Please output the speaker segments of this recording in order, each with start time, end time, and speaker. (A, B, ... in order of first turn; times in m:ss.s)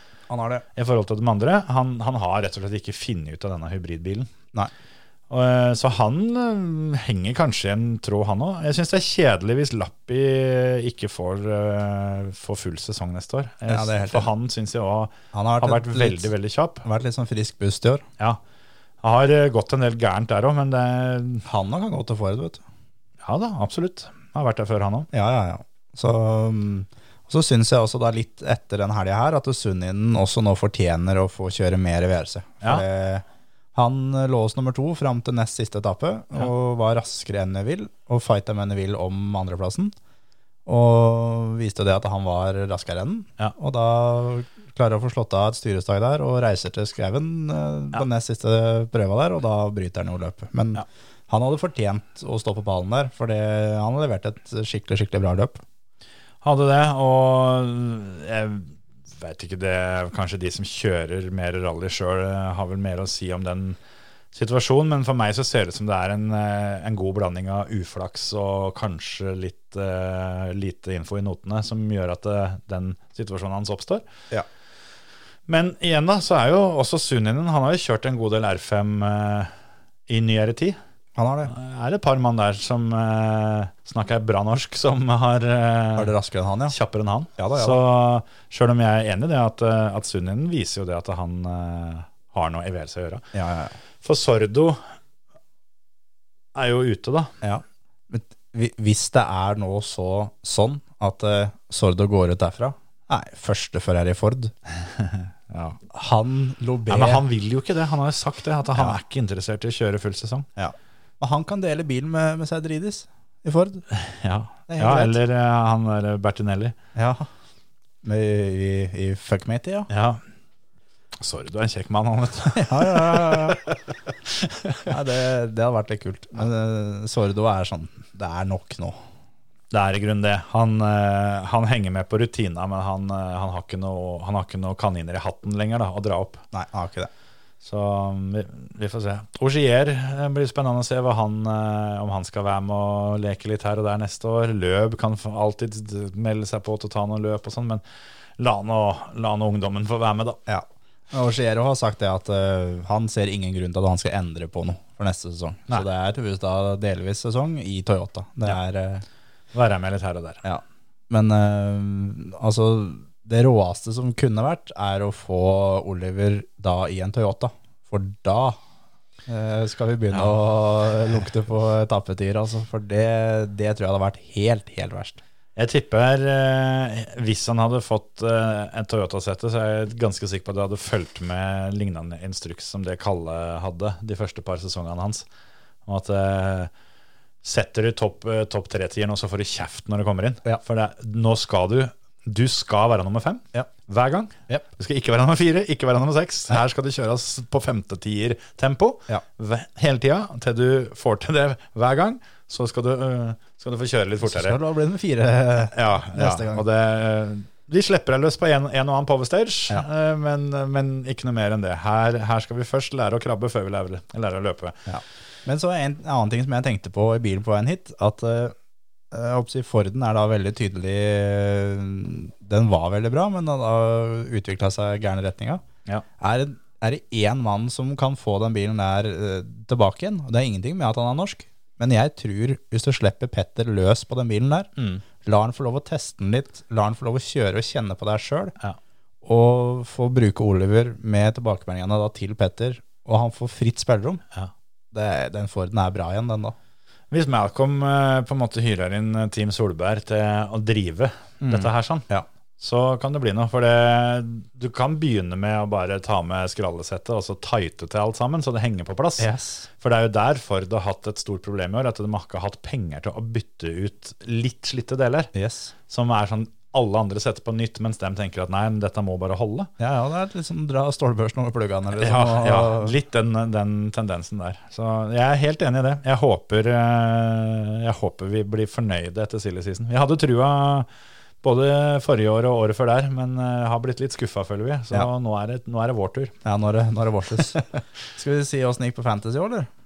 0:00.3-0:00.6 A
0:00.8-0:04.3 B
0:05.3-0:16.8 B
0:13.7-0:14.3 A
0:15.3-0:18.0 A
0:19.0-0:21.4 B
0:21.4-0:22.6 A
0:23.2-0:25.1 B
0:25.1-0:39.9 A
0:40.6-0:55.6 A
0:56.4-1:03.8 B
1:04.3-1:14.0 B
1:15.5-1:19.5 B
1:20.1-1:20.8 B
1:21.2-1:21.5 A
1:21.4-1:26.1 B
1:26.0-1:26.7 A
1:26.7-1:33.2 B
1:27.4-1:27.8 A
1:33.3-1:33.7 A
1:34.0-1:34.8 B
1:36.5-1:37.3 B
1:37.4-1:44.5 A
1:44.8-1:45.8 B
1:45.9-1:47.2 A
1:46.9-1:50.5 B
1:50.6-1:53.8 A
1:53.9-1:56.8 B
1:54.7-1:55.2 A
1:56.9-1:57.3 A
1:58.0-1:59.9 A
1:59.9-2:00.2 B
2:01.2-2:03.7 B
2:02.5-2:03.7 A
2:04.3-2:04.9 B
2:04.8-2:09.0 A
2:09.7-2:16.4 B
2:16.5-2:17.1 A
2:17.6-2:27.8 B
2:28.4-2:30.4 B
2:30.5-2:39.0 A
2:39.5-2:40.4 B
2:40.4-2:48.6 A
2:49.3-2:55.2 A
2:55.6-3:05.2 B
3:05.8-3:06.7 B
3:07.4-3:24.6 B
3:24.2-3:26.6 A
3:25.7-3:34.8 B
3:34.9-3:38.5 A
3:39.1-3:45.6 A
3:46.2-3:54.7 A
3:54.8-3:55.0 B
3:55.2-3:58.5 A
3:59.2-4:04.2 A
4:04.9-4:06.5 A
4:07.1-4:12.0 B
4:11.4-4:12.2 A
4:12.6-4:19.3 B
4:19.2-4:19.7 A
4:19.8-4:25.3 B
4:25.3-4:25.7 A
4:25.9-4:29.7 B
4:29.8-4:32.9 A
4:32.0-4:40.9 B
4:41.4-4:46.3 B
4:46.4-4:49.7 A